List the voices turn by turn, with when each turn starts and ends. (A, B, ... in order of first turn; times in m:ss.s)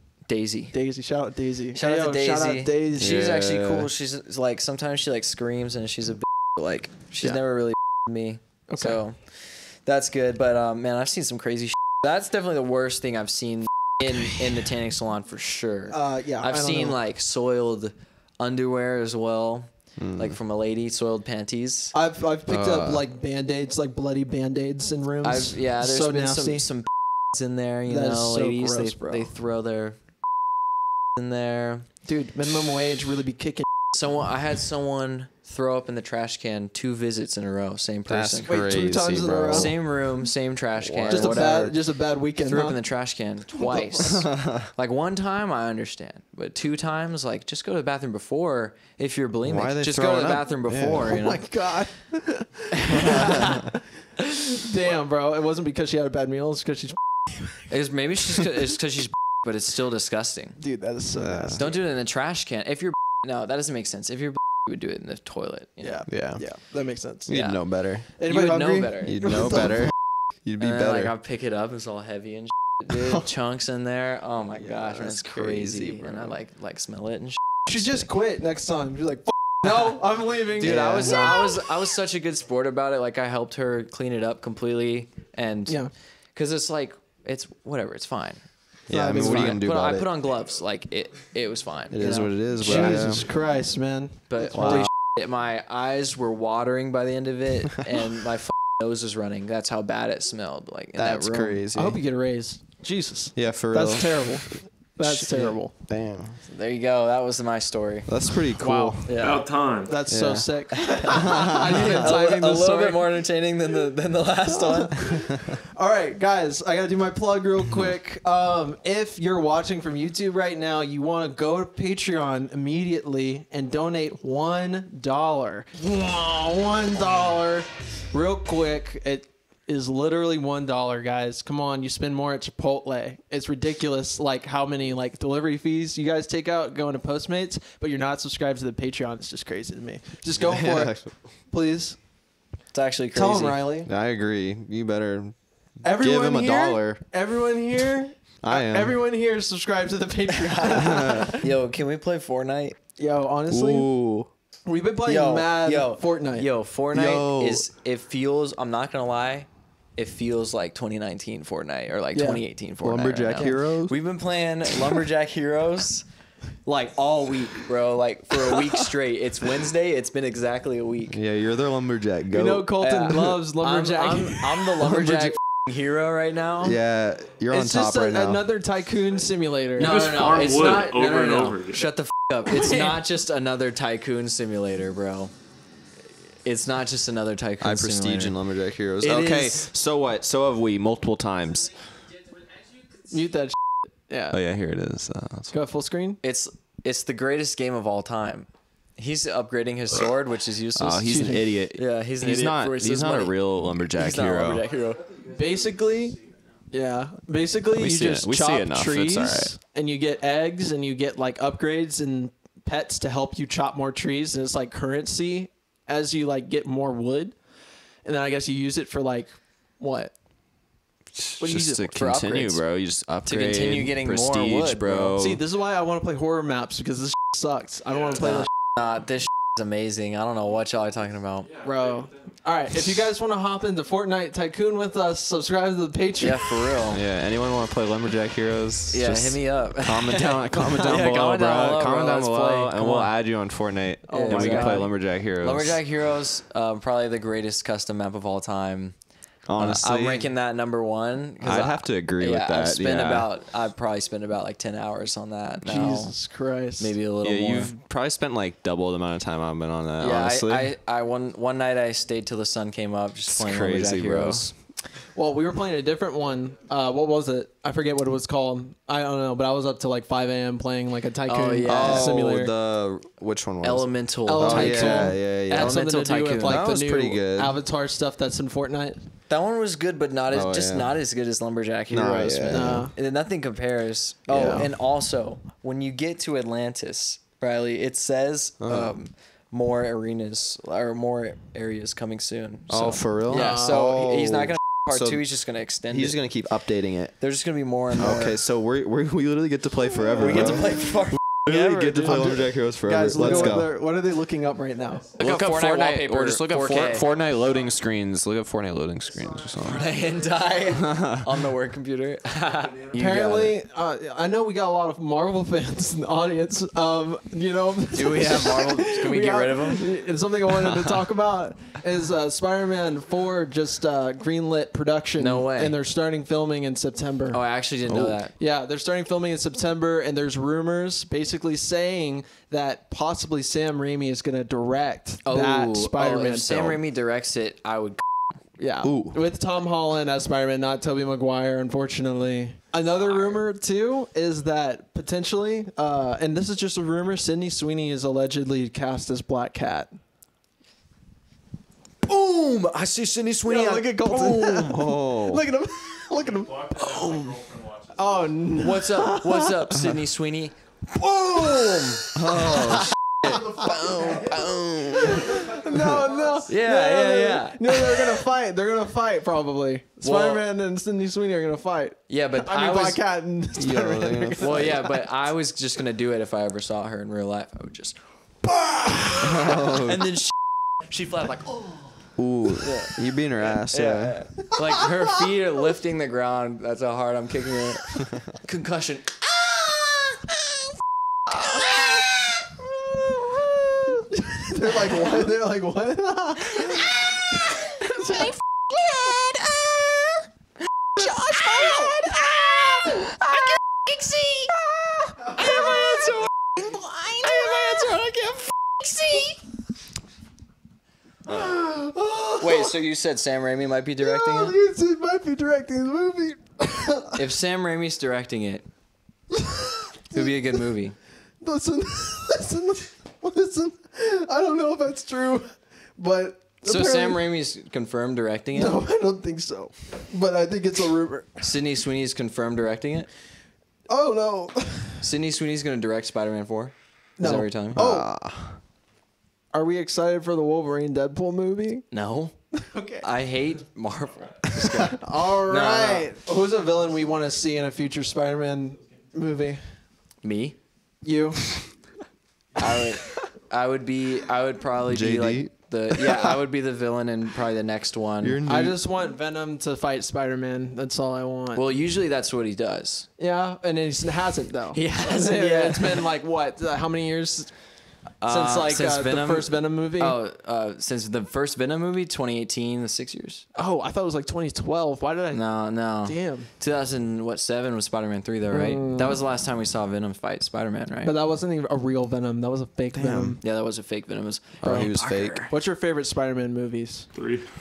0:00.3-0:00.8 A
0:00.7-0:03.4 B
0:01.7-0:21.9 A
0:03.0-0:03.9 C
0:08.7-0:09.0 B
0:15.9-0:17.0 B
0:20.0-0:20.4 C
0:21.9-0:26.7 B
0:22.5-0:23.0 C
0:25.2-0:30.0 A
0:27.9-0:29.3 B
0:31.2-0:31.9 A
0:32.0-0:33.7 B
0:33.9-0:38.5 A
0:38.1-0:39.8 C
0:38.5-0:39.8 B
0:39.5-0:51.4 A
0:40.8-0:41.5 C
0:41.1-0:42.8 B
0:43.6-0:44.1 B
0:44.0-0:44.7 C
0:49.4-0:51.2 C
0:51.1-0:57.6 B
0:52.8-0:53.6 A
0:57.7-1:00.6 A
1:00.6-1:01.8 B
1:01.1-1:01.6 C
1:01.6-1:06.1 A
1:05.8-1:07.3 B
1:06.1-1:06.4 C
1:07.2-1:08.1 C
1:07.3-1:09.6 A
1:08.2-1:09.9 B
1:09.0-1:11.1 C
1:10.6-1:18.1 A
1:14.6-1:16.4 C
1:17.6-1:21.6 B
1:20.6-1:28.4 A
1:20.6-1:21.5 C
1:25.7-1:25.9 B
1:28.9-1:30.1 C
1:28.9-1:29.6 B
1:29.0-1:33.1 A
1:31.9-1:33.3 C
1:32.6-1:34.9 B
1:34.3-1:41.6 A
1:34.5-1:34.9 C
1:41.0-1:42.0 C
1:41.7-1:45.7 B
1:43.4-1:46.4 C
1:46.5-1:48.1 A
1:48.1-1:49.1 C
1:48.6-1:49.2 B
1:49.1-1:49.4 A
1:49.2-1:50.0 D
1:49.8-1:53.0 B
1:50.1-1:52.2 C
1:50.9-1:55.0 A
1:54.6-2:22.0 B
2:20.4-2:21.1 C
2:22.7-2:23.6 A
2:23.1-2:23.9 B
2:23.8-2:27.0 C
2:25.8-2:31.5 B
2:28.4-2:29.0 C
2:30.4-2:32.8 A
2:30.7-2:31.3 C
2:33.0-2:33.9 B
2:33.5-2:34.3 C
2:34.6-2:36.5 B
2:35.0-2:46.0 A
2:36.9-2:37.6 C
2:42.1-2:42.4 B
2:42.8-2:44.0 C
2:46.6-2:51.2 A
2:51.1-2:52.8 C
2:52.3-2:54.9 B
2:52.8-2:56.8 A
2:54.8-2:55.4 C
2:56.6-2:58.4 C
2:57.5-3:00.1 B
2:59.8-3:05.3 A
2:59.8-3:01.9 D
3:06.4-3:08.4 A
3:07.6-3:11.9 C
3:09.0-3:09.7 A
3:13.1-3:13.6 B
3:14.1-3:14.4 B
3:14.3-3:15.5 C
3:15.5-3:16.2 B
3:16.2-3:23.4 A
3:20.8-3:24.6 C
3:23.9-3:25.1 A
3:25.3-3:26.2 B
3:26.7-3:37.4 B
3:27.7-3:29.6 C
3:38.0-3:40.1 B
3:41.1-3:45.4 C
3:41.4-3:41.9 B
3:41.9-3:42.6 A
3:43.2-3:45.2 A
3:45.2-3:48.5 B
3:48.2-3:51.5 A
3:51.5-3:52.2 D
3:51.6-3:56.6 B
3:56.2-3:57.0 A
3:56.9-4:05.8 C
3:58.9-4:03.1 A
4:04.1-4:04.9 B
4:04.1-4:09.0 A
4:09.5-4:10.3 C
4:09.6-4:16.1 A
4:11.4-4:13.3 C
4:15.6-4:16.9 B
4:16.8-4:17.7 A
4:17.2-4:20.7 C
4:20.0-4:24.5 A
4:23.3-4:24.6 C
4:25.1-4:32.5 B
4:31.2-4:32.1 A
4:31.6-4:37.6 C
4:33.6-4:36.7 A
4:34.3-4:39.0 B
4:39.3-4:56.2 A
4:40.3-4:41.0 C
4:41.9-4:42.9 C
4:42.5-4:42.9 B
4:44.3-4:44.7 C
4:44.3-4:44.7 B
4:48.6-4:49.0 C
4:52.7-4:55.4 C
4:53.3-4:53.8 B
4:55.9-4:57.2 C
4:57.2-4:58.4 A
4:58.0-5:03.8 C
5:00.2-5:02.1 A
5:00.2-5:00.7 B
5:01.5-5:05.1 B
5:03.2-5:03.6 A
5:05.2-5:07.1 A
5:05.2-5:10.0 C
5:09.6-5:13.6 A
5:10.7-5:11.3 C
5:12.9-5:27.4 B
5:18.0-5:19.9 A
5:25.2-5:25.8 A
5:27.3-5:28.4 A
5:27.9-5:28.2 C
5:28.4-5:36.8 B
5:35.2-5:38.0 A
5:38.6-5:50.0 B
5:38.8-5:39.2 C
5:43.0-5:43.4 A
5:52.3-5:54.0 A
5:53.5-5:57.4 B
5:54.4-5:55.4 C
5:56.2-5:58.5 D
5:58.0-5:59.9 B
5:58.6-6:00.5 A
6:00.9-6:02.7 B
6:02.1-6:06.1 C
6:02.3-6:04.3 A
6:03.3-6:04.4 B
6:05.0-6:14.8 B
6:06.5-6:08.2 A
6:10.0-6:10.4 A
6:12.1-6:13.0 A
6:13.6-6:14.9 C
6:14.4-6:18.0 A
6:18.4-6:19.2 B
6:19.1-6:20.4 A
6:19.2-6:20.1 C
6:20.9-6:21.6 A
6:22.2-6:24.3 C
6:22.6-6:30.1 A
6:31.5-6:32.1 A
6:34.2-6:36.8 B
6:41.0-6:44.5 A
6:41.0-6:42.0 E
6:45.4-6:46.3 A
6:46.7-6:47.7 E
6:47.1-6:49.4 A
6:51.3-6:52.8 B
6:52.4-6:54.6 A
6:54.0-6:57.2 B
6:57.2-6:58.6 A
6:59.3-7:00.3 B
7:00.1-7:01.0 A
7:01.4-7:07.2 B
7:06.6-7:08.8 A
7:08.5-7:11.4 B
7:11.4-7:13.1 A
7:13.9-7:15.0 B
7:15.0-7:17.8 A
7:17.2-7:18.1 B
7:17.2-7:18.6 C
7:19.5-7:21.9 B
7:21.9-7:22.4 A
7:22.6-7:23.1 B
7:23.0-7:26.1 A
7:24.8-7:29.6 B
7:30.2-7:30.6 A
7:31.0-7:31.6 B
7:32.6-7:38.4 A
7:34.9-7:36.3 C
7:38.2-7:38.8 C
7:38.5-7:41.6 B
7:41.5-7:43.1 A
7:43.2-7:47.6 B
7:44.7-7:46.1 A
7:48.2-7:53.5 A
7:48.2-7:50.2 B
7:53.6-7:56.5 B
7:55.3-8:01.1 A
7:58.5-7:59.2 B
8:01.0-8:03.4 B
8:02.9-8:03.4 C
8:03.4-8:05.5 A
8:04.6-8:05.4 C
8:04.6-8:04.9 B
8:05.5-8:07.1 B
8:07.1-8:07.4 D